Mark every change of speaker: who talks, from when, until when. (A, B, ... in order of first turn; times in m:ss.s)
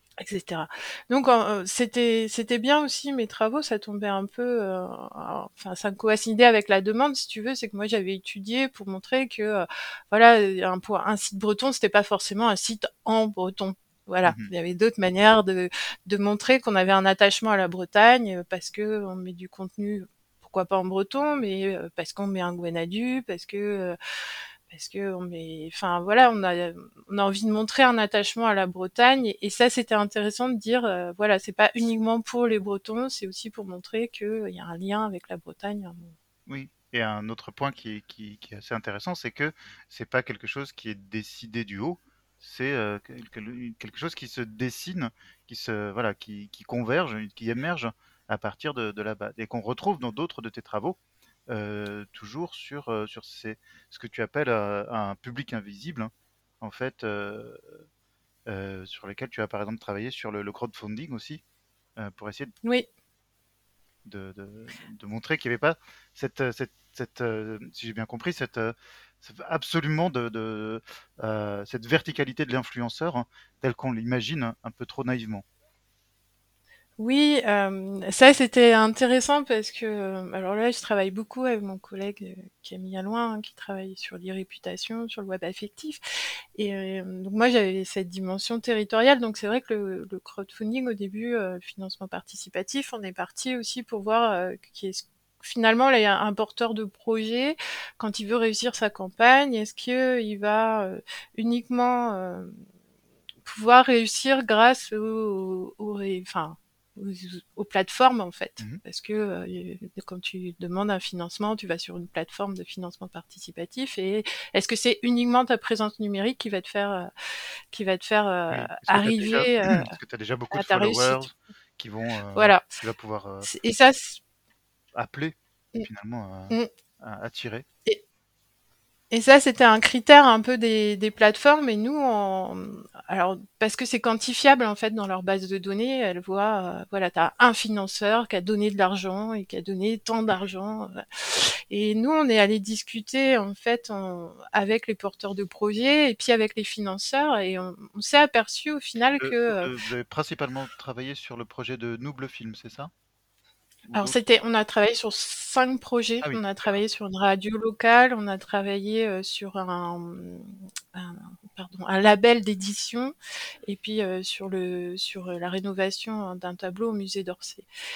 0:00.2-0:24.0 A
0:14.2-0:14.5 B
0:24.7-0:36.2 A
0:36.5-0:51.0 B
0:51.5-0:57.8 B
0:58.5-1:01.4 B
1:02.0-1:02.5 B
1:04.1-1:15.4 B
1:17.0-1:26.0 A
1:26.6-1:42.6 A
1:43.4-1:57.1 A
1:57.7-1:59.9 A
1:58.5-2:03.5 B
2:00.5-2:01.3 A
2:02.3-2:02.6 A
2:03.4-2:04.2 A
2:04.9-2:07.7 B
2:09.1-2:29.7 A
2:29.2-2:32.9 B
2:33.9-2:34.2 B
2:33.9-2:43.1 A
2:43.6-2:47.7 A